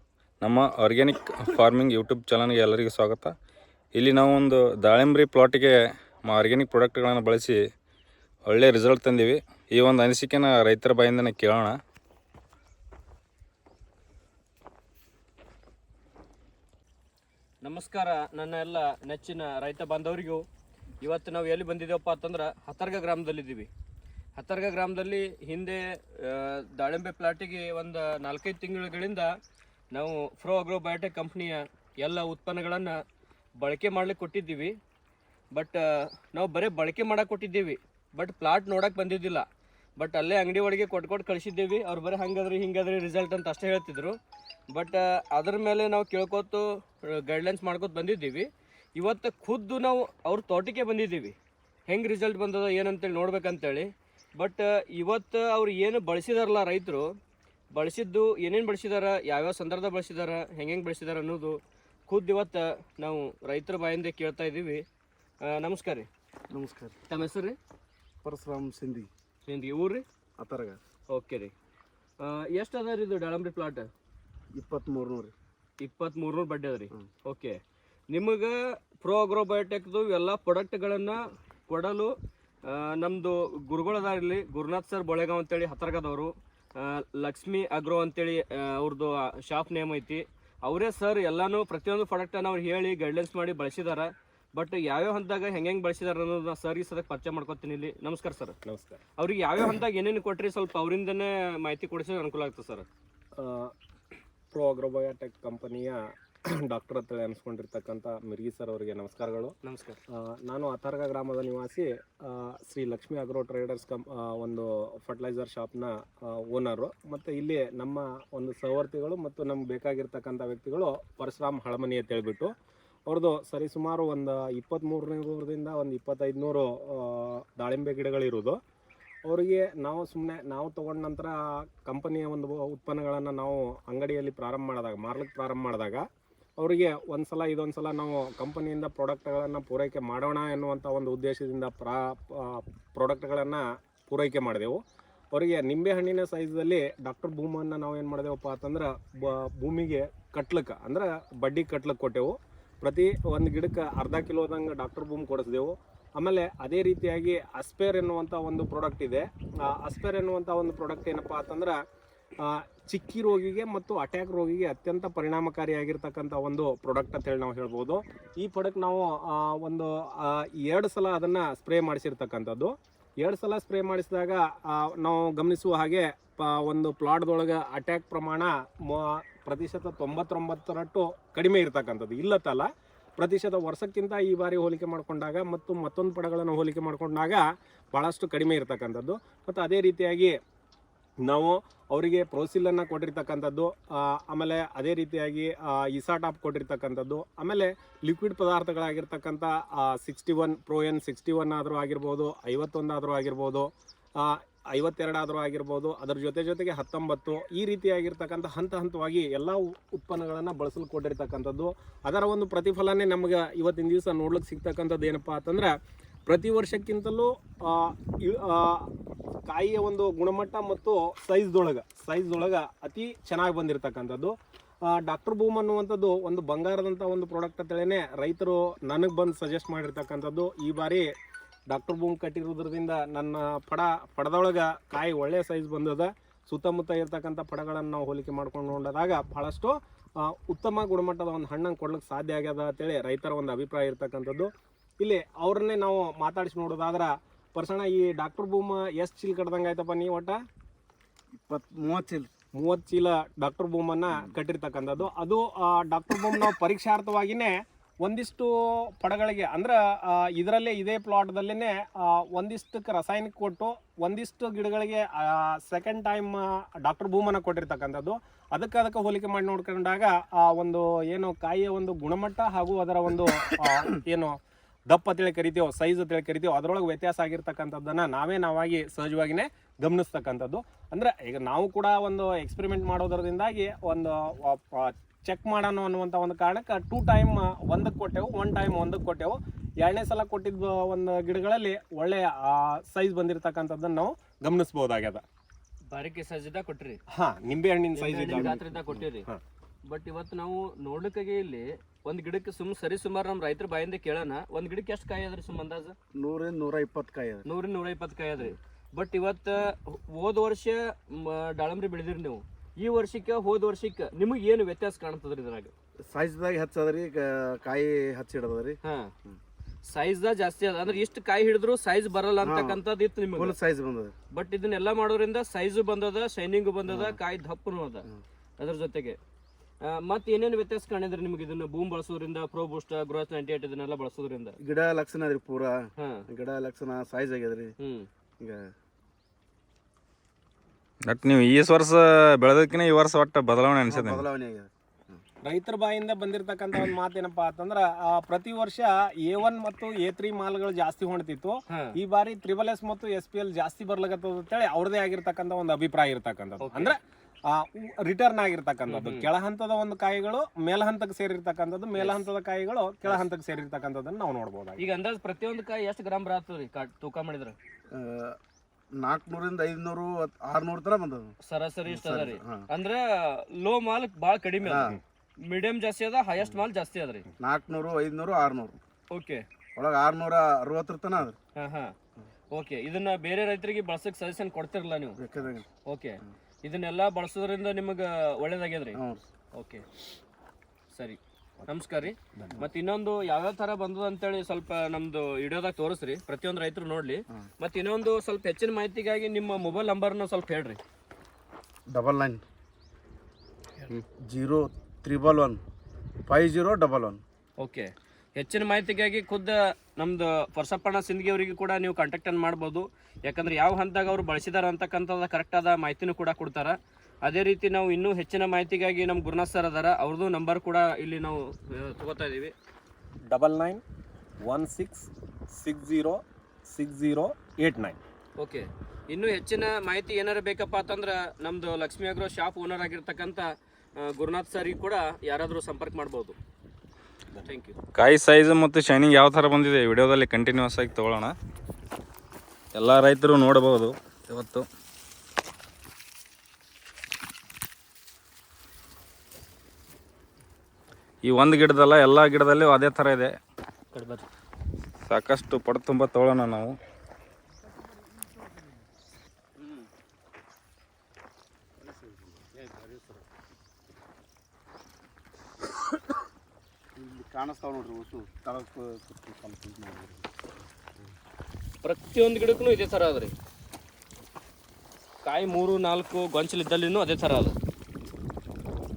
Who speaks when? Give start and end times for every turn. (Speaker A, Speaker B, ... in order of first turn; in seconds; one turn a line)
Speaker A: 0.4-3.3
Speaker A: 4.0-7.6
Speaker A: 8.5-11.8
Speaker B: 17.6-20.5
Speaker B: 21.0-23.7
Speaker B: 24.4-29.3
Speaker B: 29.9-33.0
Speaker B: 33.6-34.8
Speaker B: 35.5-39.5
Speaker B: 40.0-44.2
Speaker B: 44.7-51.4
Speaker B: 51.9-57.1
Speaker B: 57.7-64.8
Speaker B: 65.4-66.1
Speaker C: 66.5-67.0
Speaker B: 67.1-67.6
Speaker C: 68.2-69.1
Speaker B: 69.5-70.0
Speaker C: 70.4-70.8
Speaker B: 71.1-71.5
Speaker B: 72.2-73.9
Speaker C: 74.5-75.3
Speaker B: 75.8-77.6
Speaker B: 78.1-82.1
Speaker B: 82.7-98.6
Speaker D: 98.6-99.0
Speaker B: 99.2-102.9
Speaker D: 103.4-103.7
Speaker D: 104.5-106.0
Speaker D: 106.6-109.5
Speaker B: 109.6-110.0
Speaker D: 110.2-122.5
Speaker D: 123.1-128.6
Speaker D: 129.3-136.1
Speaker D: 136.6-144.8
Speaker D: 145.3-161.8
Speaker D: 162.5-187.4
Speaker D: 187.9-190.3
Speaker D: 191.3-203.7
Speaker D: 204.2-215.7
Speaker D: 216.3-218.9
Speaker D: 219.5-224.3
Speaker D: 224.9-231.1
Speaker D: 231.7-244.5
Speaker D: 245.0-250.4
Speaker C: 251.3-252.3
Speaker D: 252.6-257.5
Speaker D: 258.0-258.5
Speaker D: 259.0-274.4
Speaker D: 274.9-295.2
Speaker B: 295.9-297.0
Speaker D: 297.1-298.6
Speaker B: 297.9-299.3
Speaker C: 298.3-299.0
Speaker B: 299.9-306.0
Speaker C: 306.1-307.5
Speaker B: 307.5-315.7
Speaker C: 316.1-319.4
Speaker B: 318.8-319.1
Speaker B: 319.9-323.6
Speaker C: 322.4-322.8
Speaker C: 323.3-324.1
Speaker B: 324.3-328.1
Speaker C: 326.9-327.2
Speaker B: 328.6-329.2
Speaker B: 329.8-334.6
Speaker C: 334.6-337.8
Speaker B: 336.0-336.2
Speaker B: 337.8-338.1
Speaker C: 338.4-338.7
Speaker A: 341.1-344.2
Speaker C: 343.9-345.2
Speaker D: 345.5-357.0
Speaker B: 356.6-356.9
Speaker D: 357.5-364.8
Speaker B: 358.9-359.3
Speaker B: 362.0-362.2
Speaker B: 364.8-367.6
Speaker C: 367.9-368.4
Speaker C: 369.0-371.3
Speaker B: 371.4-377.3
Speaker C: 371.9-372.7
Speaker C: 374.6-375.0
Speaker C: 377.4-378.8
Speaker B: 379.1-379.4
Speaker C: 379.8-381.4
Speaker B: 381.6-381.9
Speaker B: 382.5-385.2
Speaker C: 385.2-385.7
Speaker B: 385.9-389.0
Speaker C: 388.9-389.2
Speaker B: 389.6-389.9
Speaker B: 390.9-400.8
Speaker D: 392.3-392.6
Speaker C: 401.9-402.4
Speaker C: 403.9-405.6
Speaker C: 406.3-407.2
Speaker B: 407.6-422.6
Speaker D: 423.3-423.8
Speaker D: 424.4-428.0
Speaker B: 428.4-436.4
Speaker B: 437.4-437.8
Speaker A: 437.9-441.4
Speaker A: 442.7-444.7
Speaker A: 451.2-453.3
Speaker B: 453.9-454.2
Speaker A: 455.1-456.7
Speaker C: 461.8-463.3
Speaker C: 466.9-470.3
Speaker B: 471.8-473.3
Speaker B: 475.2-477.6